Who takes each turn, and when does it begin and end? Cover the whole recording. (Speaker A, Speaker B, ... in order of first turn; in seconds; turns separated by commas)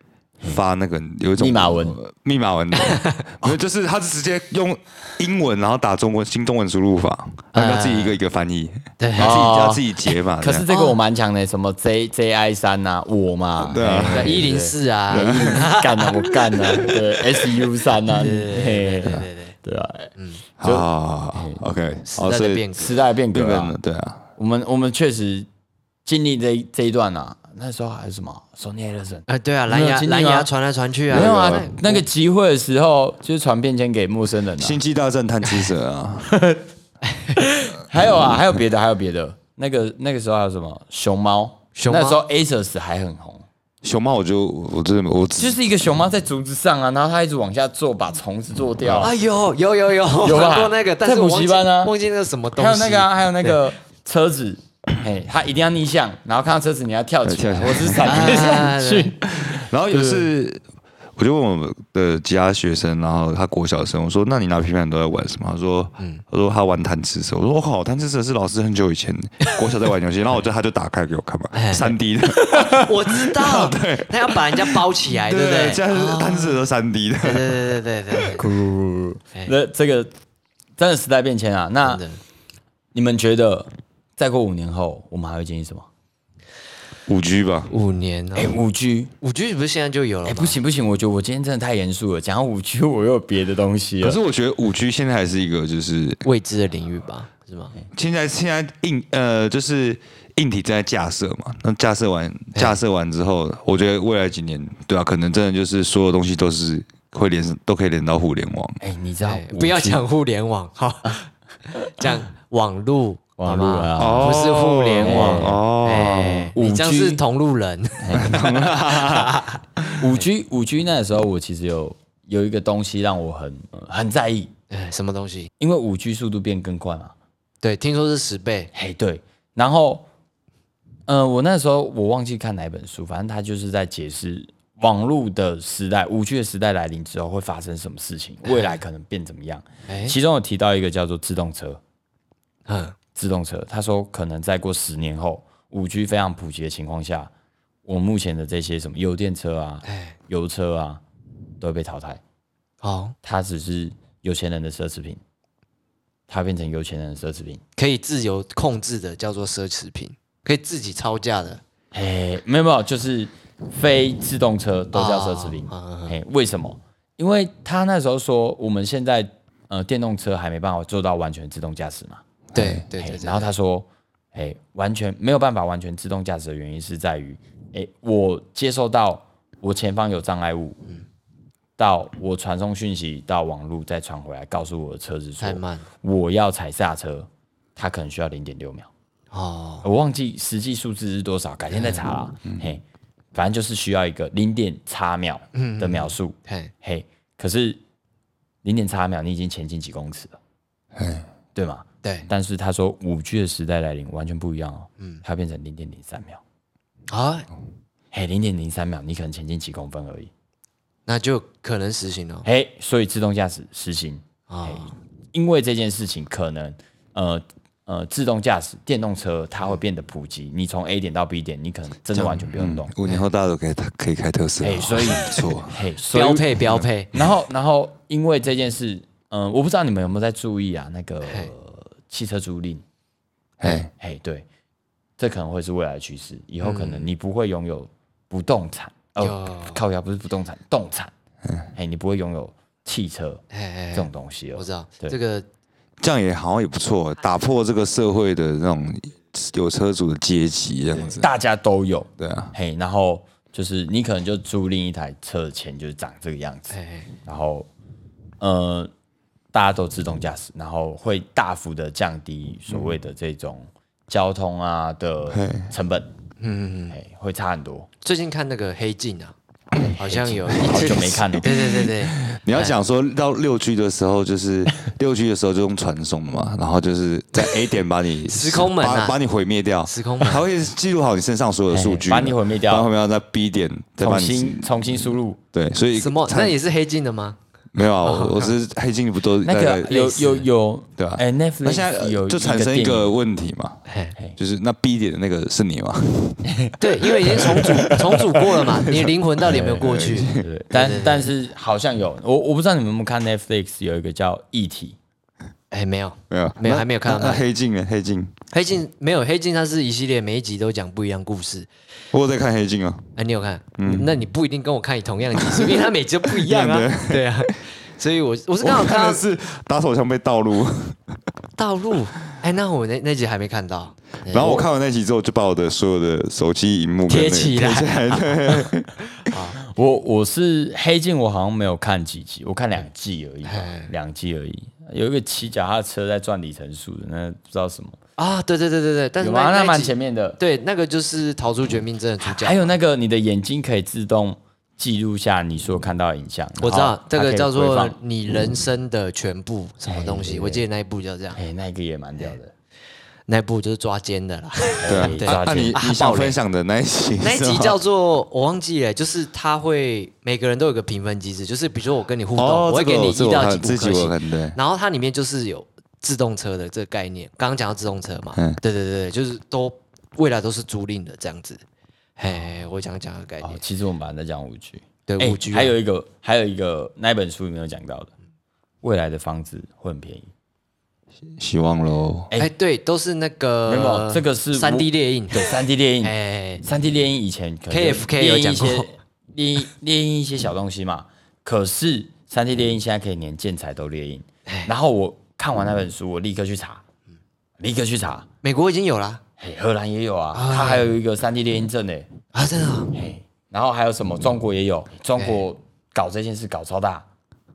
Speaker A: 0.4-10.7, Speaker B: 1.4-2.0, Speaker C: 2.8-3.1, Speaker C: 7.5-8.2, Speaker C: 9.0-9.5, Speaker B: 9.2-20.1, Speaker C: 10.7-10.9, Speaker A: 13.7-14.5, Speaker C: 14.0-17.0, Speaker A: 15.1-15.7, Speaker C: 18.1-19.6, Speaker C: 20.2-20.4, Speaker A: 20.6-22.7, Speaker B: 20.6-21.6, Speaker C: 22.1-23.0, Speaker B: 22.8-23.8, Speaker A: 23.3-24.2, Speaker B: 24.4-25.5, Speaker B: 26.1-30.5, Speaker C: 29.3-31.8, Speaker A: 31.1-32.0, Speaker B: 31.1-34.8, Speaker A: 34.6-36.3, Speaker B: 36.3-36.6, Speaker C: 37.1-37.4, Speaker B: 37.4-43.4, Speaker C: 41.8-42.2, Speaker A: 43.8-45.6, Speaker B: 45.4-49.1, Speaker C: 49.0-53.6, Speaker B: 50.2-51.9, Speaker B: 52.5-59.3, Speaker A: 57.2-58.6, Speaker C: 58.0-59.1, Speaker A: 59.3-60.6, Speaker B: 59.9-60.3, Speaker A: 61.2-78.2, Speaker C: 66.0-66.2, Speaker C: 71.5-76.6, Speaker C: 77.2-78.4, Speaker B: 78.3-80.1, Speaker B: 80.8-82.0, Speaker C: 81.8-82.2, Speaker B: 82.9-85.9, Speaker A: 87.1-87.7, Speaker C: 87.7-88.6, Speaker B: 88.3-89.1, Speaker C: 89.2-90.6, Speaker B: 90.2-94.2, Speaker A: 94.0-96.2, Speaker C: 96.2-97.8, Speaker A: 97.9-108.8, Speaker B: 108.8-110.0, Speaker C: 109.2-119.6, Speaker A: 109.6-109.8, Speaker B: 113.4-117.2, Speaker A: 114.0-116.5, Speaker B: 118.0-118.4, Speaker A: 118.2-120.0, Speaker B: 120.0-124.5, Speaker C: 124.7-125.5, Speaker B: 125.6-127.1, Speaker C: 127.6-128.7, Speaker B: 128.7-130.1, Speaker B: 131.1-141.8, Speaker C: 139.9-140.2, Speaker C: 142.7-142.9, Speaker B: 143.2-147.3, Speaker B: 147.8-151.0, Speaker C: 149.8-150.2, Speaker B: 151.6-152.2, Speaker C: 152.8-153.2, Speaker B: 153.2-155.2, Speaker B: 156.3-157.6, Speaker C: 157.8-161.6, Speaker B: 161.9-172.2, Speaker C: 164.9-166.2, Speaker A: 172.5-172.8, Speaker C: 172.5-173.5, Speaker B: 173.0-180.8, Speaker B: 181.8-188.9, Speaker C: 185.4-185.8, Speaker C: 189.3-189.9, Speaker B: 189.8-192.8, Speaker C: 191.7-192.1, Speaker B: 193.3-197.8, Speaker C: 195.5-196.7, Speaker B: 198.6-200.4, Speaker A: 200.9-201.3, Speaker B: 201.6-206.4, Speaker C: 207.1-207.5, Speaker B: 208.1-210.3, Speaker C: 211.1-212.5, Speaker B: 212.4-222.9, Speaker C: 214.5-214.9, Speaker C: 222.2-222.4, Speaker A: 222.5-225.8, Speaker B: 224.6-226.5, Speaker C: 226.1-227.2, Speaker A: 226.6-226.9, Speaker B: 227.1-232.8, Speaker C: 231.2-231.5, Speaker A: 233.6-233.9, Speaker B: 233.7-234.4, Speaker B: 235.2-241.1, Speaker C: 236.6-237.1, Speaker C: 239.2-239.8, Speaker B: 241.7-243.4, Speaker C: 243.5-245.5, Speaker B: 243.9-245.2, Speaker A: 246.0-251.3, Speaker B: 250.9-256.7, Speaker A: 252.2-252.5, Speaker C: 256.7-257.1, Speaker B: 257.2-257.7, Speaker B: 258.4-258.9, Speaker B: 259.5-266.1, Speaker A: 265.3-265.7, Speaker C: 266.4-267.0, Speaker B: 266.9-267.9, Speaker C: 268.0-269.3, Speaker B: 269.9-271.5, Speaker C: 270.0-272.7, Speaker A: 270.7-286.6, Speaker C: 278.3-279.2, Speaker C: 279.8-280.4, Speaker B: 281.7-282.9, Speaker B: 284.0-285.4, Speaker C: 285.9-287.4, Speaker A: 287.7-290.1, Speaker C: 288.0-288.5, Speaker B: 289.4-293.1, Speaker C: 290.0-290.4, Speaker A: 291.0-293.8, Speaker C: 293.9-294.1, Speaker A: 294.4-300.5, Speaker B: 296.5-296.7, Speaker C: 296.8-301.3, Speaker B: 299.5-299.8, Speaker B: 300.3-304.9, Speaker C: 305.7-307.4, Speaker A: 306.3-308.3, Speaker C: 308.5-311.7, Speaker A: 312.1-313.1, Speaker C: 313.2-319.3, Speaker A: 313.8-314.1, Speaker A: 315.3-317.6, Speaker A: 318.6-321.0, Speaker C: 321.6-324.7, Speaker A: 324.3-329.1, Speaker C: 327.1-328.7, Speaker C: 329.3-329.6, Speaker B: 329.6-338.0, Speaker C: 333.4-333.9, Speaker C: 338.2-342.6, Speaker B: 339.2-340.4, Speaker B: 342.2-348.0, Speaker C: 346.6-351.4, Speaker B: 349.9-350.6, Speaker B: 351.3-352.5, Speaker C: 353.3-356.4, Speaker B: 354.8-355.8, Speaker A: 354.9-357.8, Speaker C: 357.2-371.6, Speaker A: 362.4-364.6, Speaker A: 368.3-368.6, Speaker C: 372.2-373.6, Speaker B: 373.4-378.1, Speaker C: 375.1-375.8, Speaker B: 378.8-380.3, Speaker A: 381.2-382.3, Speaker C: 382.4-386.6, Speaker B: 383.7-396.8, Speaker C: 387.7-388.9, Speaker B: 397.6-398.3, Speaker C: 398.4-399.2, Speaker B: 399.4-402.1, Speaker C: 400.3-400.9, Speaker C: 402.3-402.9, Speaker B: 402.9-407.1, Speaker C: 405.1-405.4